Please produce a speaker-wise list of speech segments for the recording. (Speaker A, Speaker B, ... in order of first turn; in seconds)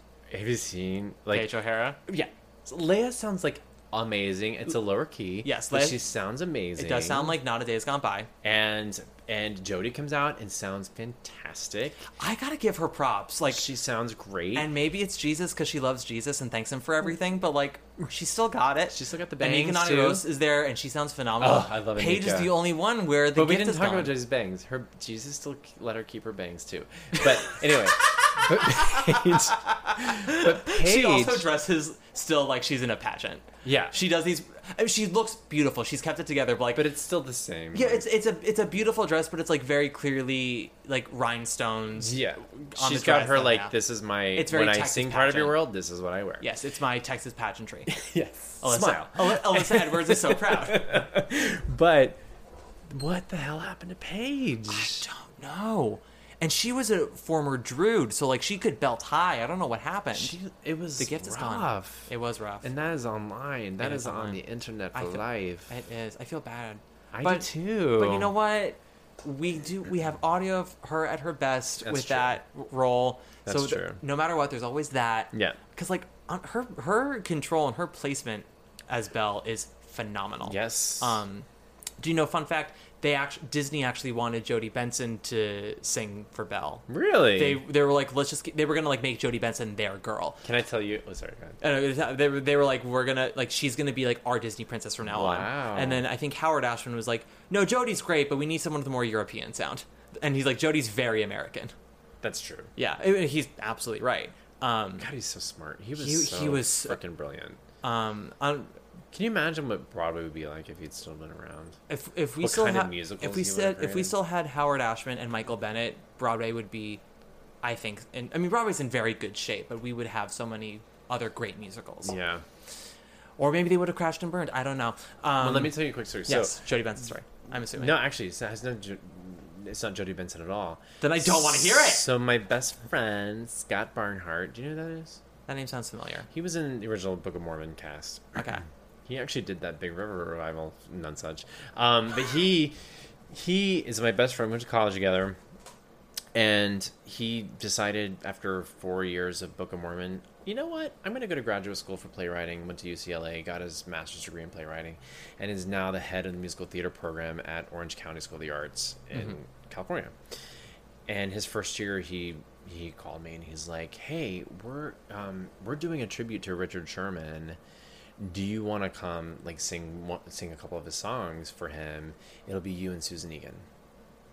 Speaker A: 0.3-1.5, 2.1-7.4, 8.4-12.1, 13.5-14.7, 18.9-20.3, 21.4-22.6, 23.3-31.5, 33.6-34.0, 36.7-38.1, 42.0-46.5, 47.9-52.2, 52.9-55.1, 60.1-62.1, 62.6-65.7, 67.1-68.3, 71.8-72.4, 73.5-74.0, 75.3-75.6, 80.4-81.2, 86.9-87.6, 90.4-91.6, 95.0-96.0, 102.2-102.7, 105.0-107.6, 109.1-111.8, 112.4-114.2, 122.0-122.5, 125.4-126.6, 127.5-135.2, 136.3-138.5, 139.1-142.8, 143.3-145.4, 146.3-160.2, 161.1-167.6, 168.2-173.7
Speaker B: 1.3-2.0, 5.4-6.0, 6.8-8.3, 12.2-13.6, 14.6-24.1, 28.2-36.9, 37.7-42.2, 42.7-43.7, 44.3-45.6, 46.4-47.9, 48.6-51.0, 54.7-60.4, 61.0-62.7, 63.8-64.4, 64.9-81.5, 82.0-86.8, 87.3-90.4, 91.6-101.7, 102.8-105.1, 106.0-107.0, 107.8-108.8, 111.9-117.0, 117.6-122.2, 123.4-128.0, 131.0-132.0, 135.5-136.3, 138.4-138.6